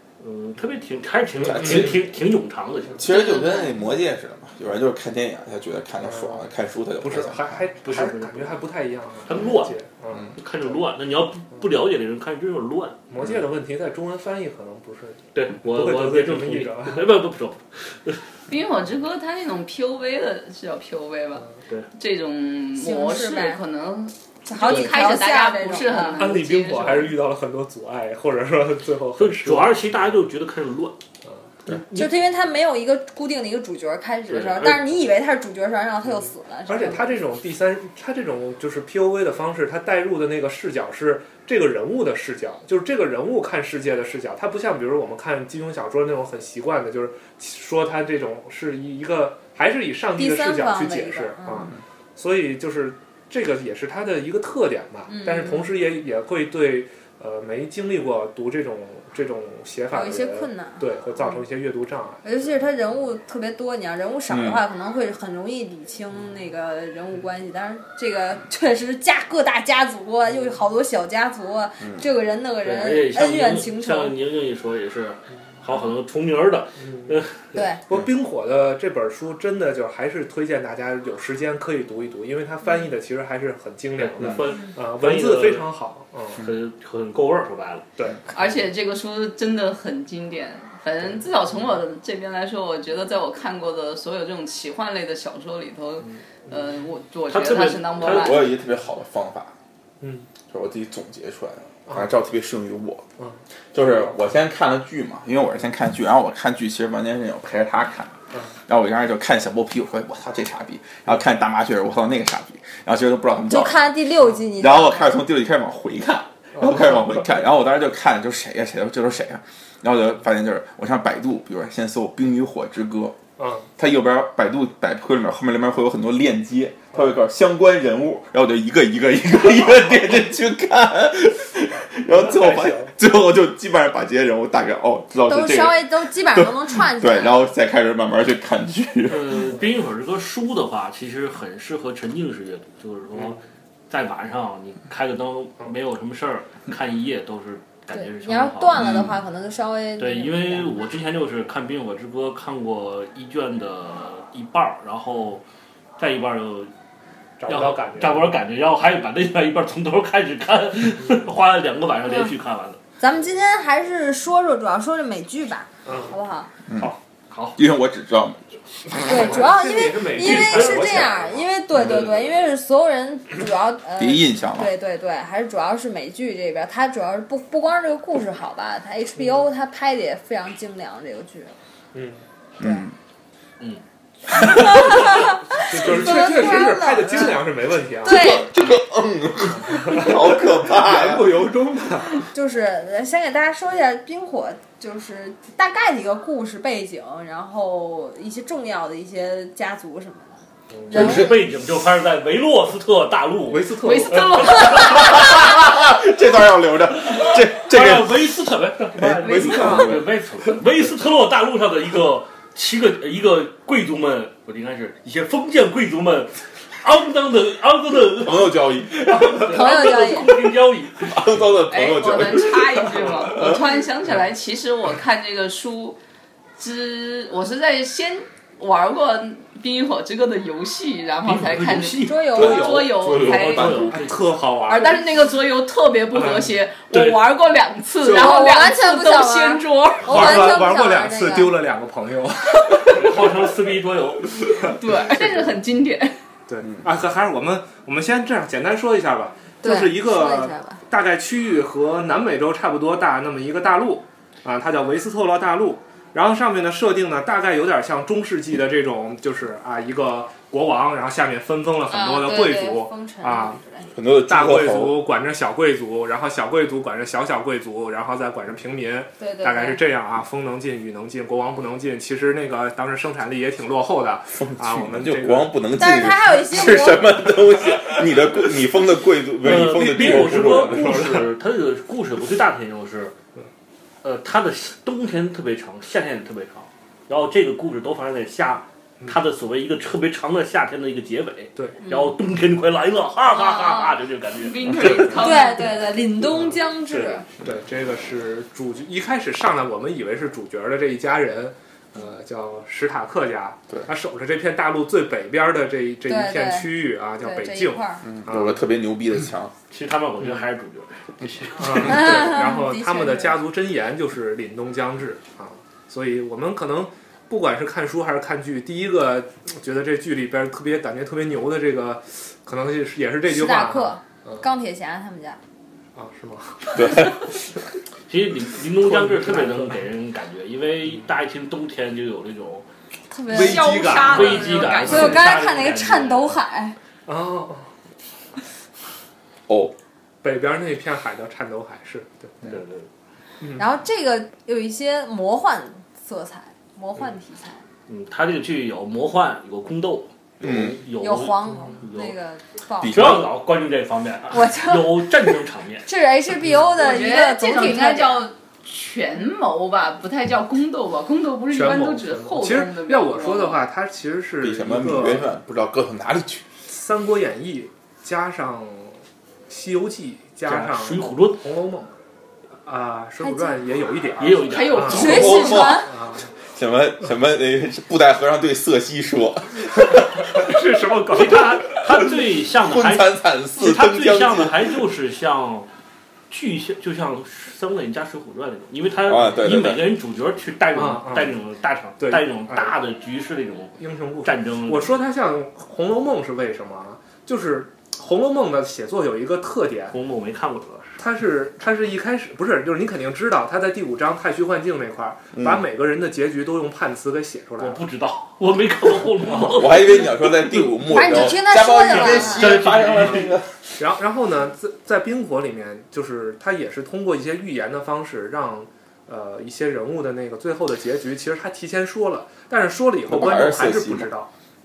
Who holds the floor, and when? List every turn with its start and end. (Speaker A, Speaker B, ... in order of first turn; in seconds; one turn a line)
Speaker A: 0.2-3.1
Speaker B: 1.4-2.0
Speaker C: 1.4-2.0
Speaker B: 3.0-7.5
Speaker D: 3.1-3.8
Speaker C: 6.0-6.5
Speaker C: 7.0-10.8
Speaker A: 7.8-8.7
Speaker A: 9.3-9.8
Speaker A: 10.4-13.0
Speaker C: 13.1-17.1
Speaker A: 15.3-18.2
Speaker E: 18.5-27.2
Speaker D: 22.8-23.6
Speaker D: 24.5-26.3
Speaker C: 24.7-25.0
Speaker C: 26.2-30.2
Speaker A: 29.2-31.0
Speaker A: 31.7-32.1
Speaker D: 31.9-37.2
Speaker A: 34.3-35.1
Speaker C: 36.7-62.2
Speaker D: 50.2-51.7
Speaker D: 55.1-55.7
Speaker D: 59.9-60.8
Speaker D: 62.2-74.1
Speaker B: 64.3-64.6
Speaker A: 72.6-77.5
Speaker C: 76.8-77.2
Speaker D: 77.5-77.8
Speaker C: 77.9-86.4
Speaker A: 84.0-85.7
Speaker A: 86.4-87.9
Speaker C: 88.0-88.2
Speaker E: 88.3-98.5
Speaker A: 97.3-98.4
Speaker B: 98.0-99.5
Speaker C: 100.0-100.3
Speaker B: 100.5-103.0
Speaker C: 103.2-104.2
Speaker B: 103.7-113.9
Speaker D: 113.5-115.2
Speaker B: 114.6-123.2
Speaker C: 116.5-117.4
Speaker C: 123.4-123.7
Speaker B: 123.8-139.4
Speaker C: 132.1-132.9
Speaker D: 135.3-137.5
Speaker A: 139.1-148.8
Speaker D: 147.9-150.7
Speaker B: 148.8-149.2
Speaker A: 150.0-155.4
Speaker A: 156.0-156.7
Speaker C: 157.4-158.4
Speaker A: 157.5-162.8
Speaker D: 162.1-162.3
Speaker D: 163.0-166.5
Speaker C: 165.9-166.2
Speaker B: 166.7-166.9
Speaker A: 166.8-167.6
Speaker B: 167.6-169.4
Speaker D: 169.1-181.5
Speaker C: 169.1-171.4
Speaker A: 170.2-172.3
Speaker B: 174.0-174.7
Speaker C: 181.9-182.2
Speaker D: 182.6-182.8
Speaker B: 182.6-182.9
Speaker D: 184.3-187.5
Speaker C: 185.6-188.4
Speaker D: 188.0-188.5
Speaker B: 188.1-191.5
Speaker C: 189.6-192.3
Speaker D: 192.3-201.3
Speaker C: 200.7-201.2
Speaker A: 200.9-205.3
Speaker B: 200.9-201.3
Speaker C: 203.5-204.8
Speaker E: 203.8-205.2
Speaker B: 204.9-208.3
Speaker A: 207.0-221.2
Speaker B: 209.0-210.1
Speaker C: 209.1-210.0
Speaker B: 218.2-219.6
Speaker D: 219.5-220.3
Speaker B: 221.1-223.7
Speaker E: 221.7-226.0
Speaker E: 226.6-233.9
Speaker A: 231.2-234.2
Speaker D: 232.0-232.8
Speaker B: 232.4-233.9
Speaker C: 233.9-235.0
Speaker E: 234.7-240.5
Speaker C: 236.1-236.6
Speaker D: 238.0-241.6
Speaker C: 240.0-243.5
Speaker A: 242.9-244.4
Speaker E: 244.7-246.2
Speaker C: 244.9-245.5
Speaker C: 246.5-263.6
Speaker D: 249.6-250.8
Speaker D: 261.9-263.9
Speaker B: 263.9-265.0
Speaker C: 264.3-275.6
Speaker D: 269.2-269.8
Speaker B: 274.4-281.2
Speaker D: 275.7-277.2
Speaker A: 279.4-283.1
Speaker C: 279.6-281.3
Speaker A: 284.0-295.4
Speaker D: 291.8-292.1
Speaker D: 293.3-293.9
Speaker E: 294.4-295.8
Speaker D: 295.1-297.2
Speaker C: 296.3-296.6
Speaker C: 297.4-308.6
Speaker D: 306.1-308.1
Speaker B: 308.1-309.5
Speaker A: 309.7-312.3
Speaker C: 311.6-324.4
Speaker D: 311.8-313.4
Speaker D: 323.3-325.4
Speaker C: 325.9-327.1
Speaker B: 326.8-327.1
Speaker A: 328.1-332.7
Speaker C: 328.8-329.8
Speaker D: 333.1-336.8
Speaker C: 333.3-335.3
Speaker E: 333.5-335.0
Speaker A: 333.7-336.4
Speaker C: 337.1-337.7
Speaker B: 339.5-339.8
Speaker C: 340.2-342.5
Speaker A: 342.4-342.9
Speaker C: 343.4-343.7
Speaker D: 343.6-347.6
Speaker A: 347.9-352.2
Speaker B: 350.4-350.8
Speaker D: 351.0-353.2
Speaker B: 352.8-353.3
Speaker A: 352.8-355.9
Speaker D: 354.3-358.3
Speaker E: 356.8-363.6
Speaker C: 361.5-365.3
Speaker B: 364.4-366.4
Speaker C: 366.7-371.9
Speaker A: 370.4-371.4
Speaker C: 372.6-376.3
Speaker D: 373.2-373.6
Speaker A: 374.2-375.4
Speaker E: 374.4-375.7
Speaker D: 374.9-375.9
Speaker B: 375.0-375.9
Speaker B: 376.5-380.5
Speaker C: 380.2-381.8
Speaker A: 381.1-385.7
Speaker B: 381.9-384.8
Speaker A: 386.3-395.0
Speaker B: 389.0-389.9
Speaker C: 390.7-391.4
Speaker C: 392.0-392.8
Speaker C: 393.8-400.0
Speaker A: 399.9-401.0
Speaker C: 401.0-407.8
Speaker B: 405.4-405.6
Speaker A: 407.6-410.2
Speaker B: 409.4-413.5
Speaker D: 410.9-412.6
Speaker A: 411.9-413.3
Speaker C: 413.8-424.3
Speaker B: 423.1-424.1